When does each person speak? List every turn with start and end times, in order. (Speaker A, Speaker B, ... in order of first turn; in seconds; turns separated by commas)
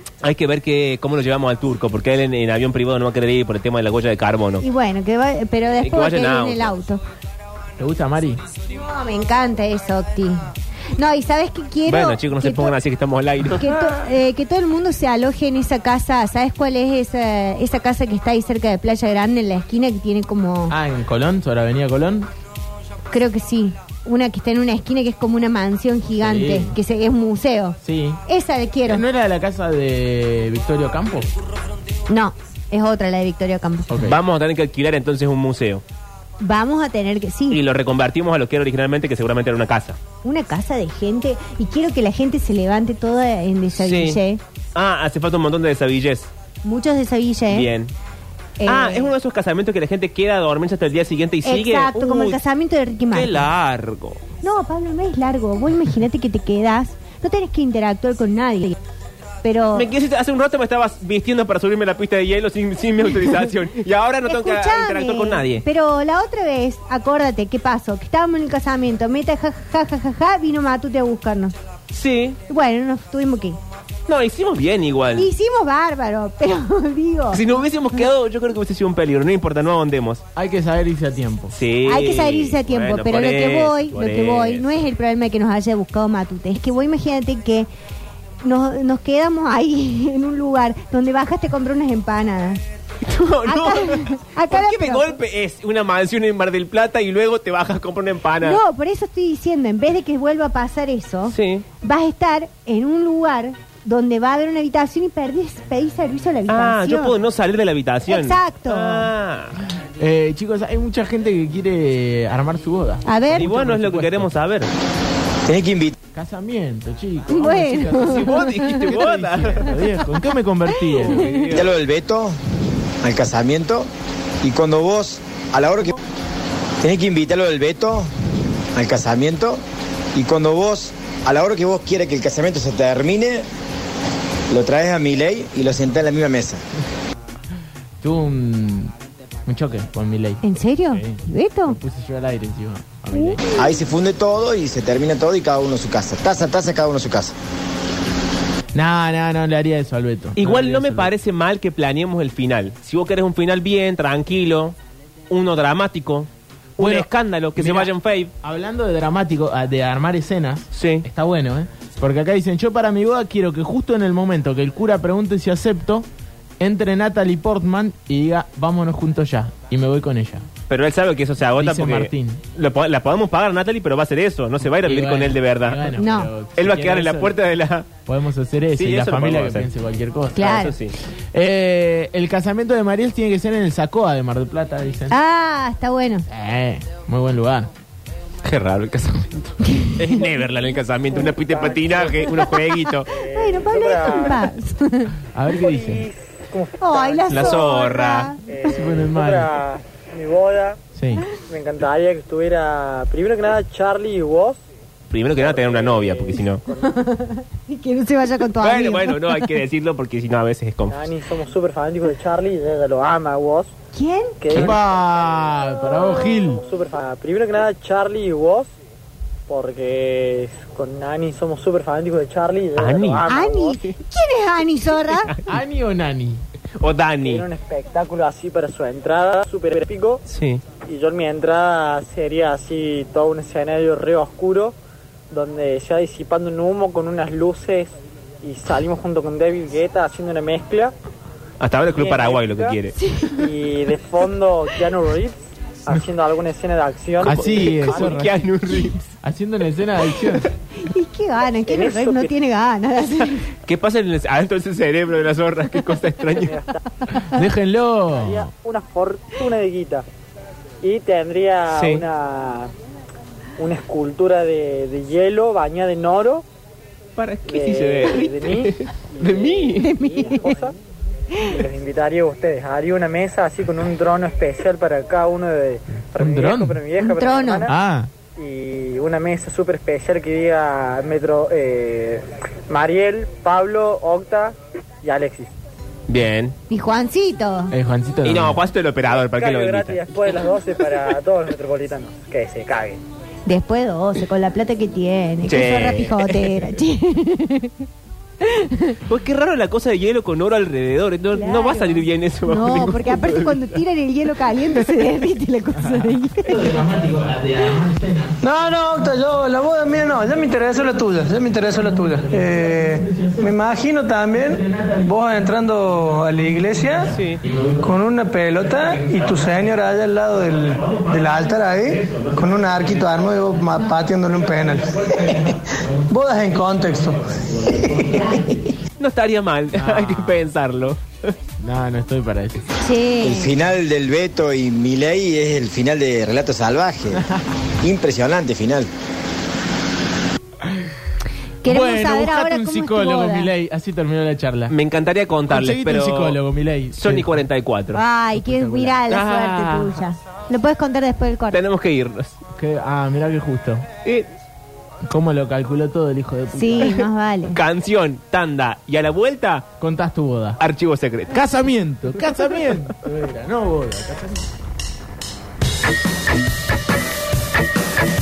Speaker A: 0.2-4.6, Speaker B: 4.6-7.0, Speaker A: 5.8-6.8, Speaker C: 7.8-8.4, Speaker B: 8.7-10.4, Speaker B: 11.0-12.7, Speaker A: 11.9-13.9, Speaker B: 13.5-20.8, Speaker C: 20.7-22.3, Speaker B: 23.1-29.0, Speaker C: 26.2-26.8, Speaker C: 27.8-28.2, Speaker C: 28.8-31.3, Speaker B: 32.1-34.0, Speaker C: 33.9-34.2, Speaker A: 34.1-35.8, Speaker B: 36.4-37.6, Speaker A: 37.5-40.0, Speaker B: 40.2-44.4, Speaker A: 43.8-44.2, Speaker A: 44.7-46.3, Speaker B: 46.6-47.7, Speaker A: 47.5-47.9, Speaker B: 48.6-49.1, Speaker A: 48.6-52.4, Speaker B: 51.4-53.5, Speaker A: 53.1-54.2, Speaker B: 54.4-58.8, Speaker B: 59.4-59.9, Speaker A: 59.7-65.6, Speaker B: 64.2-71.5, Speaker A: 71.9-72.4, Speaker B: 72.5-73.6, Speaker A: 74.1-75.3, Speaker B: 75.2-77.4, Speaker A: 77.3-80.2, Speaker C: 80.3-81.5, Speaker A: 81.5-84.7, Speaker B: 81.8-87.7, Speaker B: 88.4-92.6, Speaker A: 93.1-98.6, Speaker B: 93.4-95.1, Speaker B: 98.4-107.2, Speaker A: 101.3-101.6, Speaker A: 106.5-109.5, Speaker B: 108.1-109.1, Speaker C: 110.0-114.3, Speaker B: 113.0-113.5, Speaker A: 113.3-114.7, Speaker D: 115.5-115.9, Speaker C: 116.1-121.4, Speaker B: 117.3-118.9, Speaker A: 117.9-119.8, Speaker B: 120.7-121.2, Speaker A: 121.0-121.7, Speaker D: 121.5-122.3, Speaker D: 123.0-123.9, Speaker D: 124.4-126.0, Speaker D: 126.8-128.1, Speaker D: 128.7-129.6, Speaker D: 130.1-133.4, Speaker D: 134.5-136.6, Speaker C: 138.0-138.9, Speaker C: 139.5-143.4, Speaker B: 140.4-141.8, Speaker B: 143.1-143.6, Speaker D: 143.5-147.3, Speaker C: 148.7-151.1, Speaker A: 150.4-154.7, Speaker A: 155.3-158.3, Speaker C: 156.8-166.1, Speaker A: 160.7-161.1, Speaker C: 166.6-170.4, Speaker A: 170.7-175.9, Speaker C: 171.6-172.4, Speaker C: 174.6-177.4, Speaker B: 176.0-176.3, Speaker A: 176.6-177.9, Speaker C: 178.1-180.6, Speaker A: 178.7-179.7, Speaker B: 180.3-180.7, Speaker A: 180.4-180.9, Speaker C: 181.3-185.2, Speaker B: 185.1-186.2, Speaker C: 186.3-187.7, Speaker A: 188.4-193.1, Speaker B: 189.7-190.2, Speaker E: 191.1-194.5, Speaker B: 193.3-195.1, Speaker C: 195.3-196.1, Speaker E: 195.5-197.8, Speaker B: 196.8-198.7, Speaker A: 197.3-198.3, Speaker E: 198.4-204.6, Speaker C: 198.7-199.5, Speaker C: 200.9-201.2, Speaker A: 205.1-206.6, Speaker E: 205.4-206.9, Speaker B: 206.8-209.4, Speaker A: 208.6-211.0, Speaker E: 210.9-213.7, Speaker B: 213.9-214.4, Speaker E: 214.4-214.9, Speaker C: 214.5-216.6, Speaker E: 215.9-218.7, Speaker E: 219.5-223.8, Speaker A: 222.8-223.3, Speaker B: 223.3-225.3, Speaker C: 225.4-226.4, Speaker A: 226.8-227.4, Speaker E: 227.2-230.2, Speaker A: 230.3-230.6, Speaker E: 230.8-234.7, Speaker E: 235.3-240.9, Speaker A: 241.6-242.9, Speaker E: 241.9-248.1, Speaker B: 243.0-243.4, Speaker C: 247.2-248.5, Speaker A: 247.2-249.0, Speaker C: 249.2-250.5, Speaker B: 250.8-253.5, Speaker E: 251.6-252.3, Speaker A: 253.7-256.6, Speaker E: 256.4-256.8, Speaker C: 257.3-258.5, Speaker E: 258.1-260.0, Speaker E: 260.8-262.7, Speaker A: 261.7-262.0, Speaker E: 263.6-266.4, Speaker A: 267.2-269.9, Speaker E: 267.4-270.7, Speaker B: 269.8-270.6, Speaker B: 271.3-271.6, Speaker E: 271.4-277.7, Speaker C: 276.1-276.8, Speaker B: 277.0-277.7, Speaker C: 277.6-278.1, Speaker E: 278.3-285.5, Speaker A: 286.1-286.5, Speaker B: 286.7-287.7, Speaker C: 287.7-288.6, Speaker A: 288.2-291.1, Speaker E: 289.1-293.0, Speaker B: 293.4-297.8, Speaker A: 295.4-296.6, Speaker B: 298.4-299.0, Speaker A: 299.1-303.7, Speaker B: 301.3-306.6, Speaker C: 305.8-308.4, Speaker F: 308.4-317.1, Speaker A: 317.1-317.4, Speaker F: 317.8-325.6, Speaker F: 326.1-328.6, Speaker A: 329.0-331.3, Speaker C: 329.7-330.4, Speaker C: 331.6-332.7, Speaker B: 332.8-333.5, Speaker D: 333.2-337.2, Speaker C: 337.1-337.4, Speaker D: 337.8-338.9, Speaker C: 340.6-340.9, Speaker B: 341.6-343.5, Speaker C: 341.6-344.7, Speaker A: 344.7-346.4, Speaker C: 345.5-347.4, Speaker A: 346.9-348.0, Speaker B: 347.9-351.6, Speaker C: 348.4-349.0, Speaker A: 349.1-350.0, Speaker A: 351.5-352.3, Speaker C: 352.6-353.9, Speaker C: 355.1-357.0, Speaker B: 356.5-357.6, Speaker A: 357.5-359.7, Speaker C: 359.8-360.6, Speaker A: 360.6-361.4, Speaker C: 361.3-364.5